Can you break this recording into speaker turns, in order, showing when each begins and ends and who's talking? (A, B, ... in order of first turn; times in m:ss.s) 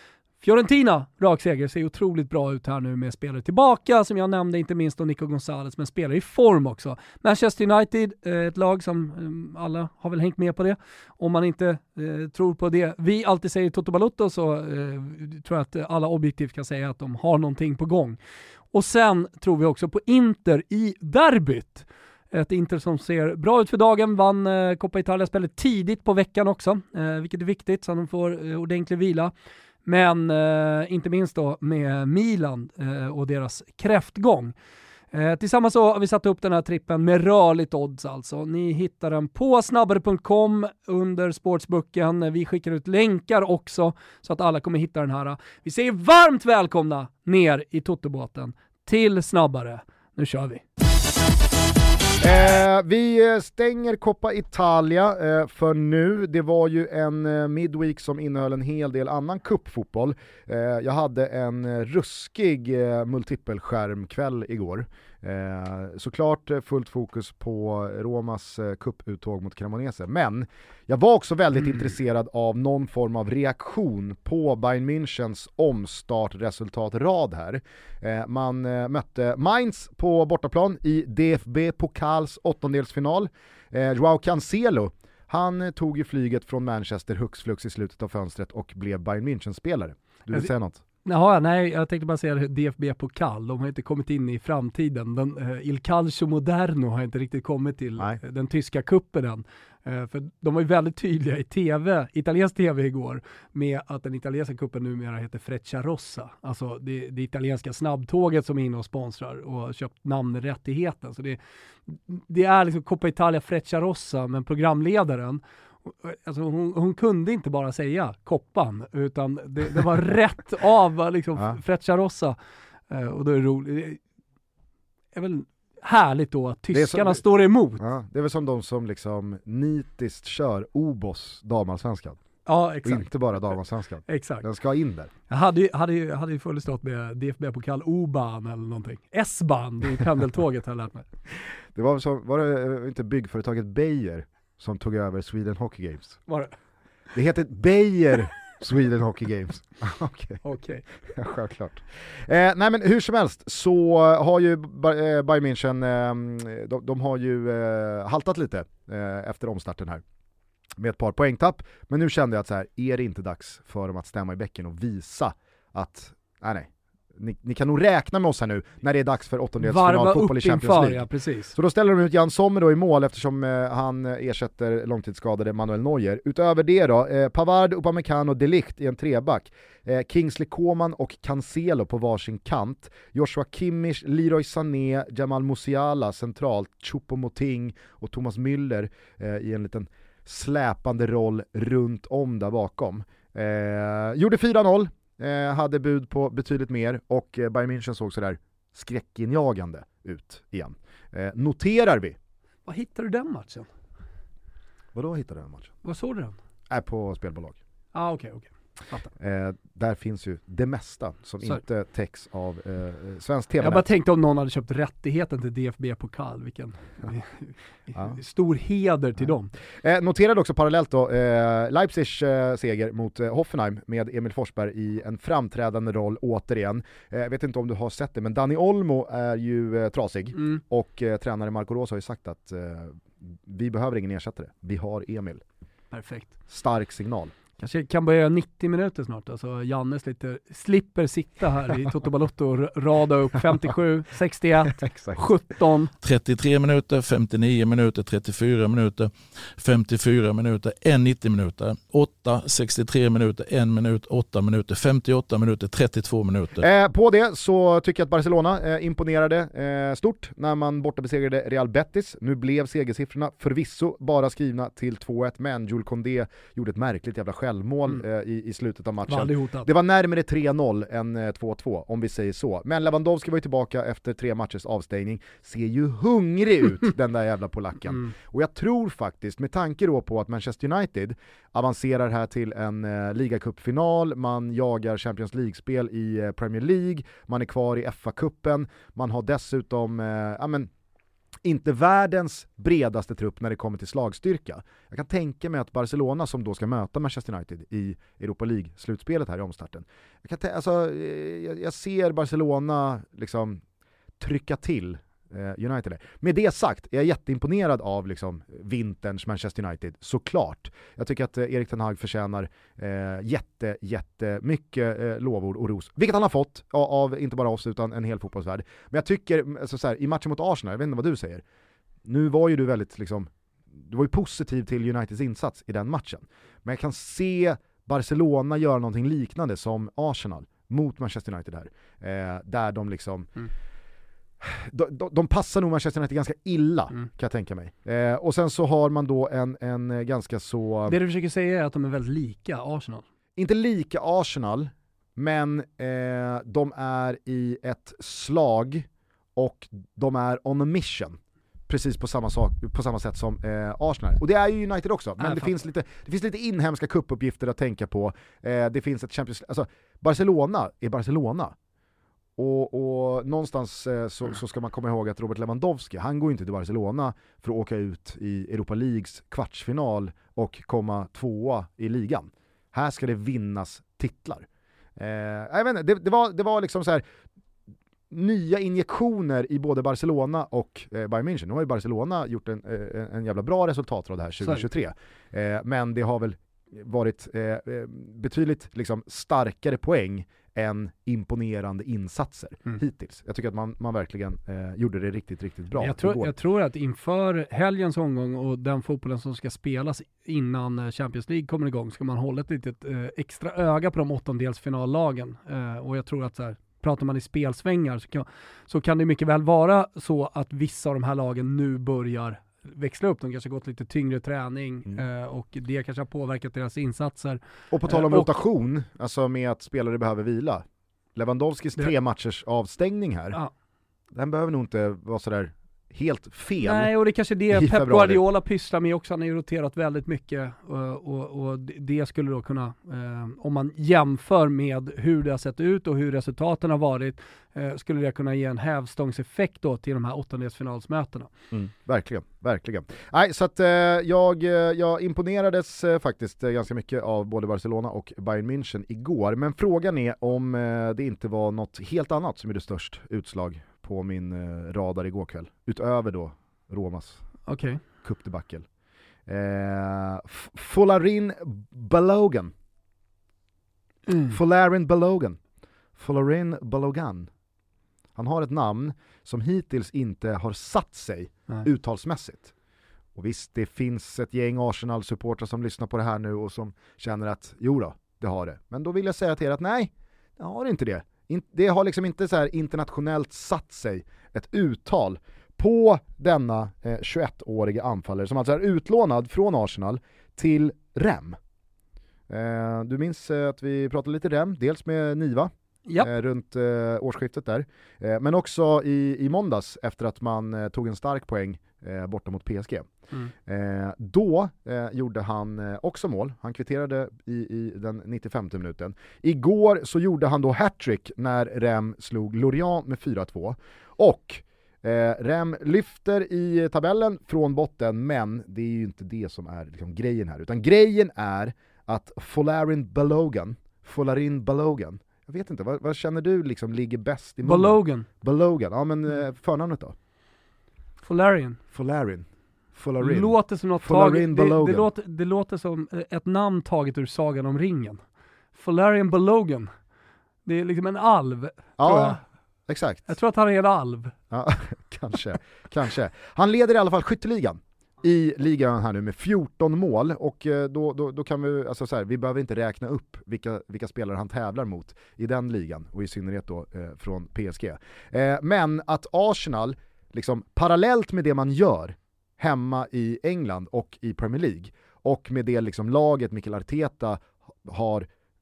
0:00.4-0:18.2 A
0:18.7-0:29.3 A
0:29.9-0:34.5 A
0:35.1-0:50.6 A
0:52.2-1:30.8 B
1:31.0-2:02.4 A
2:02.9-2:04.0 A
2:05.1-2:07.8 A
2:06.7-2:07.2 B
2:07.8-2:12.2 B
2:12.4-2:13.1 A
2:12.8-2:15.1 B
2:14.1-2:14.5 A
2:15.3-2:21.0 A
2:21.7-2:26.2 B
2:26.3-2:26.5 A
2:27.1-2:30.4 B
2:30.4-2:30.8 A
2:31.1-2:40.0 B
2:40.8-3:22.2 B
2:49.6-2:51.6 A
3:22.6-3:23.7 A
3:24.9-3:25.7 B
3:25.8-3:26.4 A
3:26.7-3:27.6 B
3:27.9-3:29.1 A
3:29.2-3:33.9 B
3:33.6-3:39.5 A
3:39.8-3:55.4 B
3:50.4-3:50.6 A
3:55.9-3:56.3 A
3:56.5-3:57.3 B
3:57.6-4:05.9 A
4:04.8-4:05.2 B
4:06.0-4:16.6 C
4:16.6-4:50.7 B
4:29.1-4:29.7 A
4:51.4-5:03.6 B
5:04.2-5:21.4 B
5:22.0-5:33.3 B
5:34.4-5:41.0 B
5:40.9-5:43.0 A
5:43.4-6:01.6 B
5:55.2-5:55.5 A
6:02.4-6:17.0 B
6:18.1-6:36.3 B
6:35.8-6:58.3 A
6:57.7-7:03.4 B
7:04.1-7:06.9 B
7:06.6-7:21.3 A
7:07.5-7:08.2 B
7:21.5-7:37.2 B
7:37.5-7:37.8 A
7:38.0-7:38.6 B
7:39.3-7:42.5 B
7:44.1-7:44.4 A
7:44.3-7:45.4 B
7:46.0-7:47.3 B
7:48.1-7:52.5 B
7:53.1-8:11.4 B
8:12.3-8:22.9 B
8:23.5-8:50.0 B
8:47.4-8:48.1 A
8:51.0-8:51.6 A
8:51.7-8:54.9 B
8:53.0-8:58.0 A
8:58.6-8:59.7 A
9:00.4-9:02.2 A
9:01.8-9:03.1 B
9:03.1-9:04.1 A
9:04.3-9:28.1 B